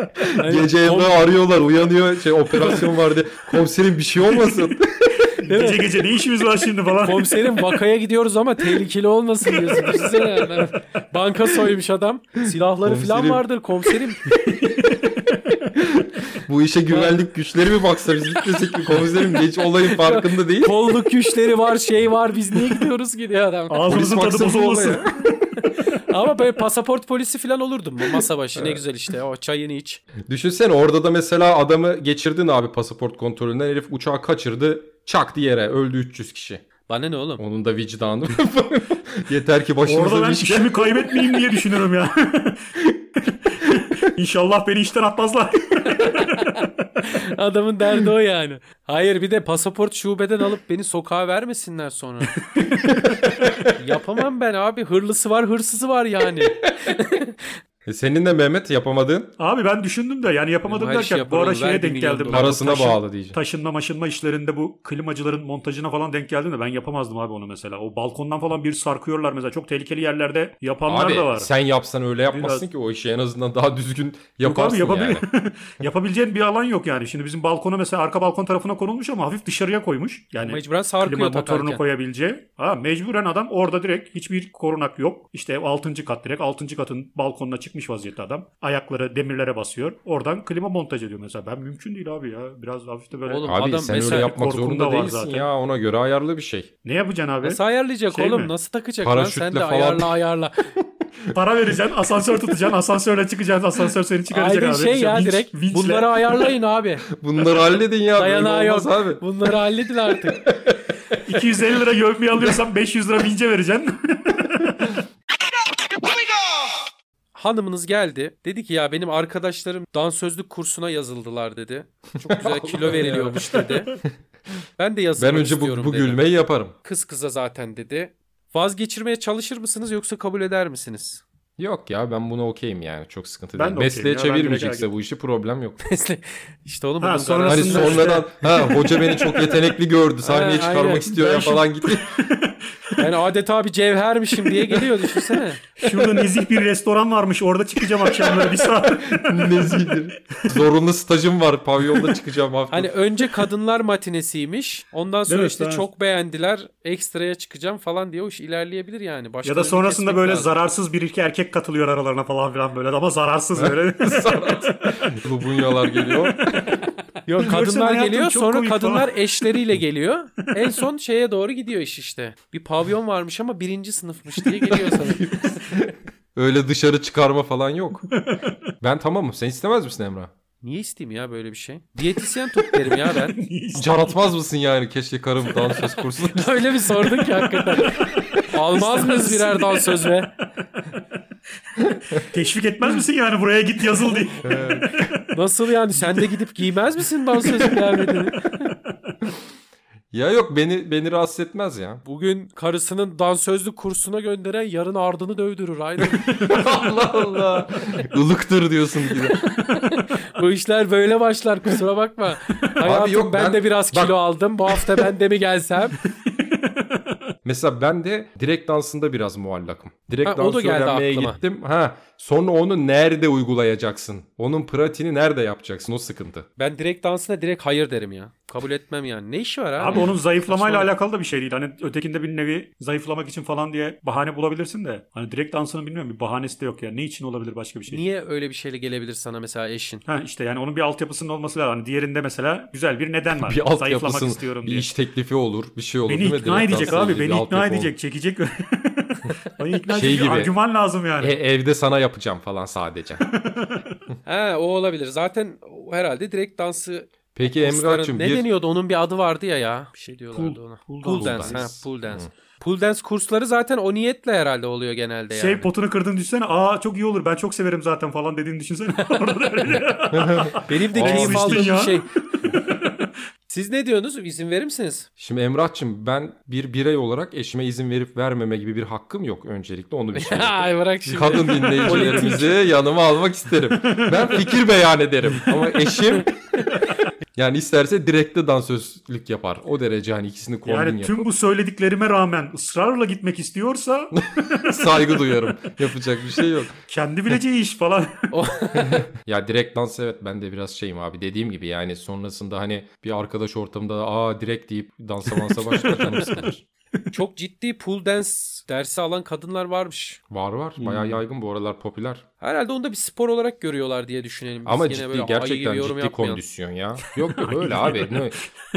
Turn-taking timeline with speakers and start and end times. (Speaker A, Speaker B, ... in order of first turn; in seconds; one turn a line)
Speaker A: 0.2-5.2
Speaker B: 0.3-1.3
Speaker C: 4.3-4.7
Speaker C: 5.4-7.5
Speaker B: 5.4-5.9
Speaker B: 7.0-14.2
Speaker C: 9.7-10.4
Speaker A: 12.8-13.4
Speaker C: 14.4-15.6
Speaker A: 15.7-20.8
Speaker B: 16.9-17.2
Speaker B: 19.8-23.9
Speaker C: 23.7-25.4
Speaker A: 23.9-25.2
Speaker B: 25.8-30.0
Speaker A: 28.5-28.8
Speaker A: 30.2-36.6
Speaker B: 36.9-37.4
Speaker A: 37.4-41.0
Speaker C: 39.8-42.7
Speaker C: 43.3-46.6
Speaker B: 45.9-52.4
Speaker C: 52.6-52.8
Speaker B: 53.8-57.6
Speaker A: 57.9-59.3
Speaker C: 59.4-71.5
Speaker B: 60.7-62.9
Speaker A: 62.3-63.4
Speaker A: 70.9-75.2
Speaker C: 72.3-72.7
Speaker C: 74.4-95.5
Speaker B: 80.4-81.8
Speaker B: 93.2-94.4
Speaker A: 93.5-96.7
Speaker C: 96.8-98.5
Speaker B: 97.4-100.7
Speaker A: 99.0-100.2
Speaker A: 100.8-101.3
Speaker C: 101.3-106.5
Speaker B: 104.3-107.1
Speaker A: 107.1-109.2
Speaker B: 108.2-110.4
Speaker A: 110.3-111.4
Speaker C: 111.2-114.9
Speaker B: 117.3-123.9
Speaker A: 122.4-123.6
Speaker C: 122.9-124.0
Speaker B: 124.8-126.2
Speaker A: 125.2-126.7
Speaker B: 126.8-131.2
Speaker A: 131.6-135.8
Speaker C: 133.5-134.9
Speaker B: 135.8-138.2
Speaker C: 137.0-138.9
Speaker A: 137.5-142.1
Speaker B: 140.2-141.2
Speaker C: 141.1-143.0
Speaker B: 143.0-145.6
Speaker C: 145.8-150.5
Speaker A: 148.9-152.9
Speaker B: 152.7-160.5
Speaker C: 155.3-155.9
Speaker C: 159.4-164.9
Speaker A: 163.5-166.8
Speaker C: 166.0-166.7
Speaker B: 167.2-175.6
Speaker C: 167.4-169.4
Speaker A: 175.2-178.1
Speaker C: 178.1-178.5
Speaker A: 178.8-180.3
Speaker B: 180.6-183.4
Speaker C: 182.9-184.2
Speaker A: 183.7-186.7
Speaker B: 186.3-190.3
Speaker C: 187.3-190.2
Speaker C: 192.1-195.2
Speaker A: 194.4-195.1
Speaker B: 195.3-198.7
Speaker C: 196.0-196.3
Speaker A: 200.1-202.0
Speaker B: 202.0-206.6
Speaker A: 206.3-209.4
Speaker B: 209.4-216.0
Speaker A: 212.8-214.2
Speaker A: 214.7-215.1
Speaker A: 217.4-226.4
Speaker B: 220.2-221.4
Speaker B: 226.6-230.9
Speaker C: 229.8-238.0
Speaker B: 237.9-240.0
Speaker C: 240.0-244.9
Speaker A: 243.4-247.9
Speaker C: 246.1-251.3
Speaker A: 249.9-250.5
Speaker A: 251.2-253.2
Speaker C: 253.3-253.8
Speaker B: 254.2-265.7
Speaker A: 257.3-258.5
Speaker C: 260.3-261.8
Speaker A: 261.1-262.3
Speaker C: 265.3-273.1
Speaker B: 269.6-269.9
Speaker A: 270.1-271.8
Speaker B: 270.6-272.1
Speaker B: 273.5-275.1
Speaker A: 275.2-286.3
Speaker B: 280.1-282.6
Speaker C: 281.7-282.5
Speaker C: 283.7-284.4
Speaker A: 287.3-291.3
Speaker C: 290.6-294.9
Speaker A: 294.2-296.7
Speaker C: 296.9-298.3
Speaker B: 298.3-299.0
Speaker A: 298.8-306.6
Speaker C: 305.7-306.0
Speaker B: 307.1-310.2
Speaker A: 310.3-312.2
Speaker C: 310.8-311.2
Speaker B: 312.4-316.4
Speaker A: 314.6-318.4
Speaker C: 317.4-318.5